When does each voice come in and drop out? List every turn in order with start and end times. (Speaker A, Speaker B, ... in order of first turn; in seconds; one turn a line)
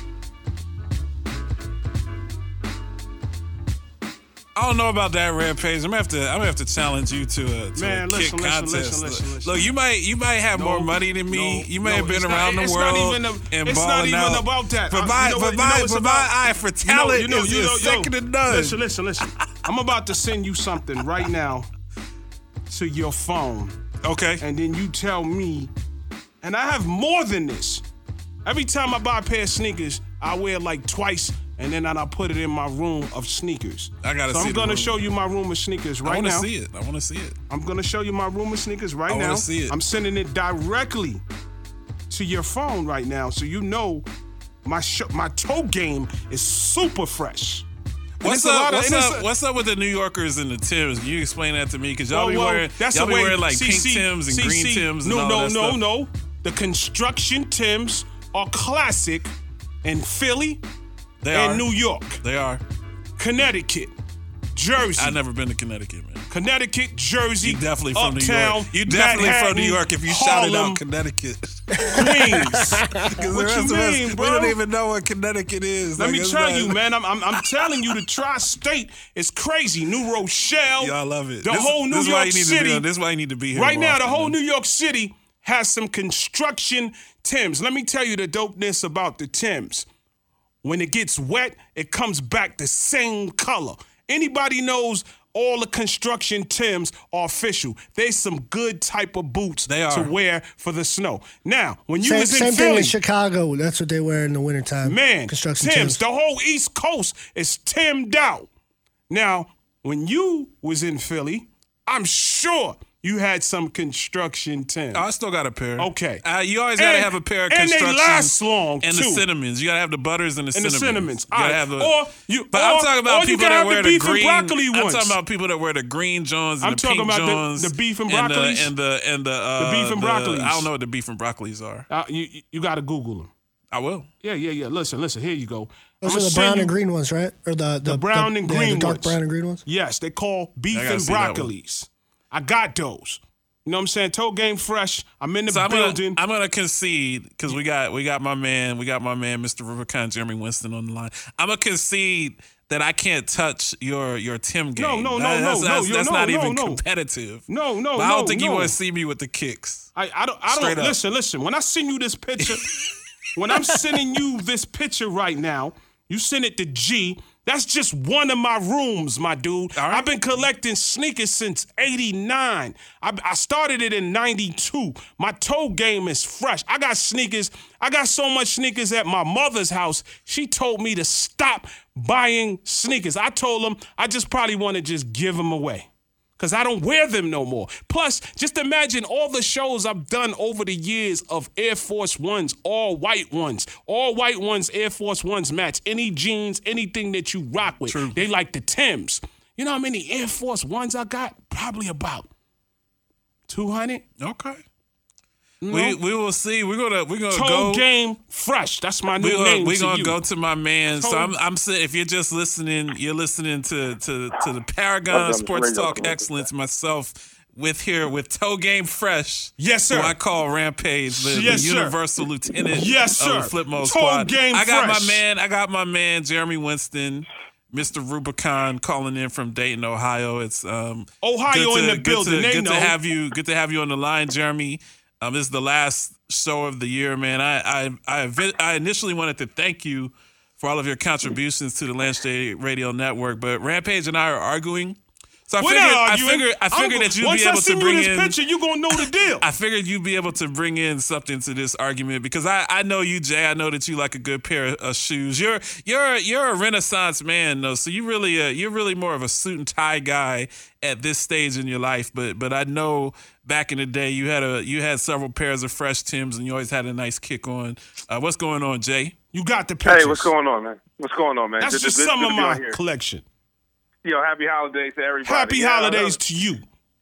Speaker A: 4.5-18.8
Speaker B: 7.8-9.7
Speaker B: 10.5-16.3
Speaker B: 16.8-21.7
Speaker B: 22.7-23.8
Speaker A: 24.0-24.4
Speaker B: 24.4-25.7
Speaker B: 26.4-27.8
Speaker B: 28.4-36.5
Speaker A: 34.0-35.0
Speaker A: 36.0-37.4
Speaker B: 37.5-41.2
Speaker A: 39.1-39.8
Speaker B: 42.1-44.1
Speaker B: 44.6-47.6
Speaker A: 48.2-55.8
Speaker B: 48.2-49.3
Speaker B: 52.1-59.3
Speaker B: 59.8-60.6
Speaker A: 61.2-61.7
Speaker B: 61.3-62.2
Speaker A: 62.2-62.6
Speaker B: 63.2-63.9
Speaker B: 64.5-65.2
Speaker A: 65.0-66.2
Speaker B: 66.3-70.8
Speaker A: 67.4-76.8
Speaker B: 71.9-74.6
Speaker B: 76.0-82.8
Speaker A: 80.8-84.4
Speaker B: 83.5-89.9
Speaker B: 90.6-103.0
Speaker A: 99.7-100.1
Speaker C: 102.0-106.0
Speaker B: 104.8-108.5
Speaker B: 109.1-115.0
Speaker A: 114.9-122.0
Speaker B: 115.8-116.2
Speaker B: 116.8-119.2
Speaker B: 120.5-125.2
Speaker A: 122.5-131.9
Speaker B: 126.6-128.7
Speaker B: 129.6-130.7
Speaker B: 131.9-133.3
Speaker A: 133.7-134.1
Speaker B: 134.2-136.8
Speaker C: 136.0-139.6
Speaker B: 137.8-146.2
Speaker A: 140.7-141.5
Speaker A: 145.5-159.9
Speaker B: 154.8-156.8
Speaker B: 157.5-158.8
Speaker B: 160.0-162.7
Speaker A: 160.5-161.0
Speaker B: 163.4-202.3
Speaker A: 169.8-170.1
Speaker A: 197.9-198.2
Speaker B: 203.5-204.1
Speaker A: 204.2-204.6
Speaker B: 205.6-206.0
Speaker A: 205.7-207.9
Speaker B: 207.3-210.2
Speaker A: 209.2-245.0
Speaker B: 210.9-211.3
Speaker D: 215.1-216.5
Speaker B: 219.6-220.2
Speaker B: 221.1-222.0
Speaker B: 222.7-225.2
Speaker B: 231.2-232.9
Speaker A: 245.5-248.4
Speaker B: 245.6-249.5
Speaker A: 249.0-269.1
Speaker B: 269.3-270.3
Speaker D: 269.9-272.8
Speaker B: 271.6-273.2
Speaker D: 274.0-276.2
Speaker B: 275.3-276.6